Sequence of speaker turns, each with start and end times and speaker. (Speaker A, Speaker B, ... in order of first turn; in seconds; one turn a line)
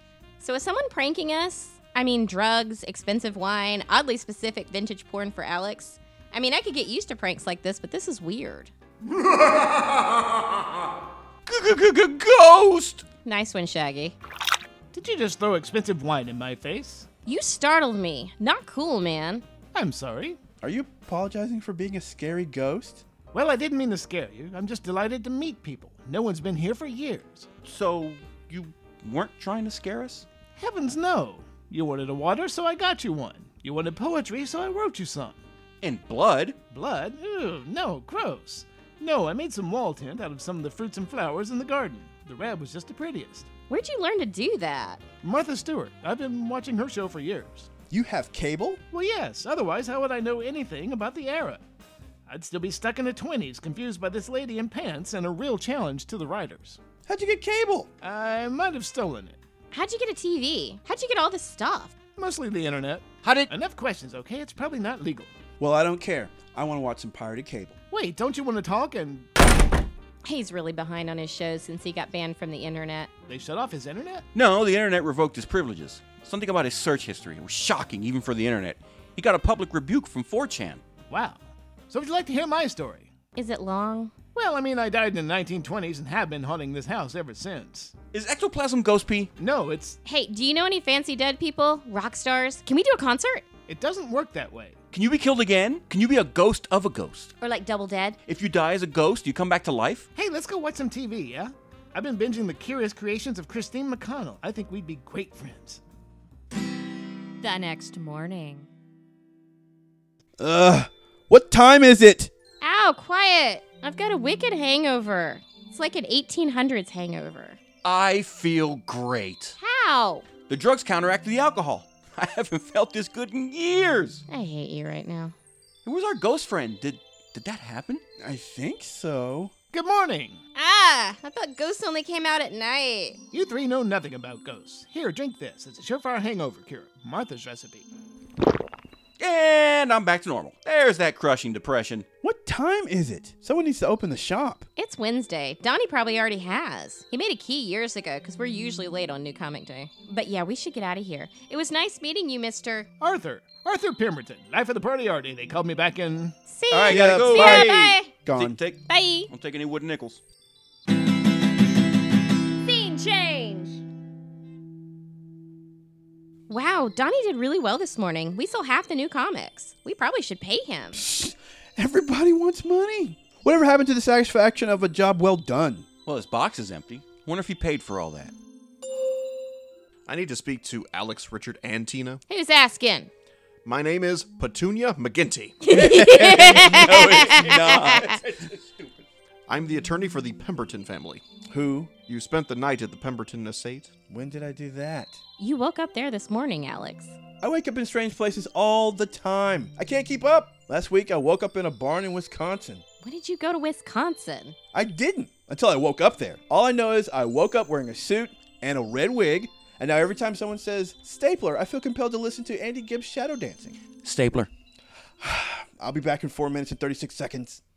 Speaker A: 0.4-8.7
Speaker B: 11.5-13.0
Speaker A: 13.2-14.2
Speaker C: 14.9-17.1
Speaker A: 17.3-19.4
Speaker C: 19.7-20.4
Speaker D: 20.6-23.1
Speaker C: 23.3-27.5
Speaker B: 27.6-30.3
Speaker C: 30.6-35.4
Speaker B: 35.8-36.6
Speaker C: 36.7-43.5
Speaker A: 43.7-45.0
Speaker C: 45.2-47.7
Speaker D: 47.9-48.8
Speaker C: 48.9-51.6
Speaker C: 52.3-56.8
Speaker D: 57.1-57.9
Speaker C: 58.0-59.4
Speaker A: 59.7-61.9
Speaker C: 62.2-65.3
Speaker B: 63.2-63.5
Speaker D: 65.6-67.8
Speaker C: 67.9-69.3
Speaker A: 70.2-73.1
Speaker C: 73.3-74.3
Speaker B: 74.3-80.8
Speaker C: 81.1-83.1
Speaker A: 83.3-84.1
Speaker C: 84.3-87.9
Speaker B: 88.1-89.3
Speaker C: 89.4-90.0
Speaker A: 90.0-93.4
Speaker C: 93.7-94.8
Speaker B: 94.9-97.3
Speaker A: 97.4-98.2
Speaker B: 98.3-100.1
Speaker C: 100.2-105.8
Speaker A: 107.4-108.7
Speaker D: 110.4-112.3
Speaker A: 112.6-117.6
Speaker B: 117.8-119.6
Speaker A: 119.6-120.3
Speaker B: 120.5-124.2
Speaker A: 124.3-125.3
Speaker B: 125.8-128.0
Speaker D: 128.2-129.5
Speaker C: 129.7-130.4
Speaker A: 130.6-133.2
Speaker C: 133.3-137.9
Speaker B: 139.2-142.1
Speaker D: 142.2-144.7
Speaker A: 144.8-152.9
Speaker C: 153.0-156.4
Speaker A: 156.5-158.1
Speaker D: 156.7-158.6
Speaker B: 156.8-160.2
Speaker A: 158.9-159.3
Speaker A: 162.6-163.8
Speaker A: 166.5-171.0
Speaker D: 170.9-175.9
Speaker B: 176.1-178.3
Speaker E: 180.1-182.2
Speaker A: 182.3-183.1
Speaker E: 183.7-185.6
Speaker A: 185.6-188.2
Speaker D: 185.7-188.2
Speaker E: 186.2-186.5
Speaker B: 186.3-189.0
Speaker E: 189.5-191.2
Speaker D: 191.5-192.0
Speaker E: 192.0-193.9
Speaker D: 194.1-195.2
Speaker A: 195.4-197.2
Speaker D: 197.4-202.8
Speaker A: 203.0-204.6
Speaker D: 204.7-213.8
Speaker B: 214.0-214.5
Speaker D: 215.2-217.6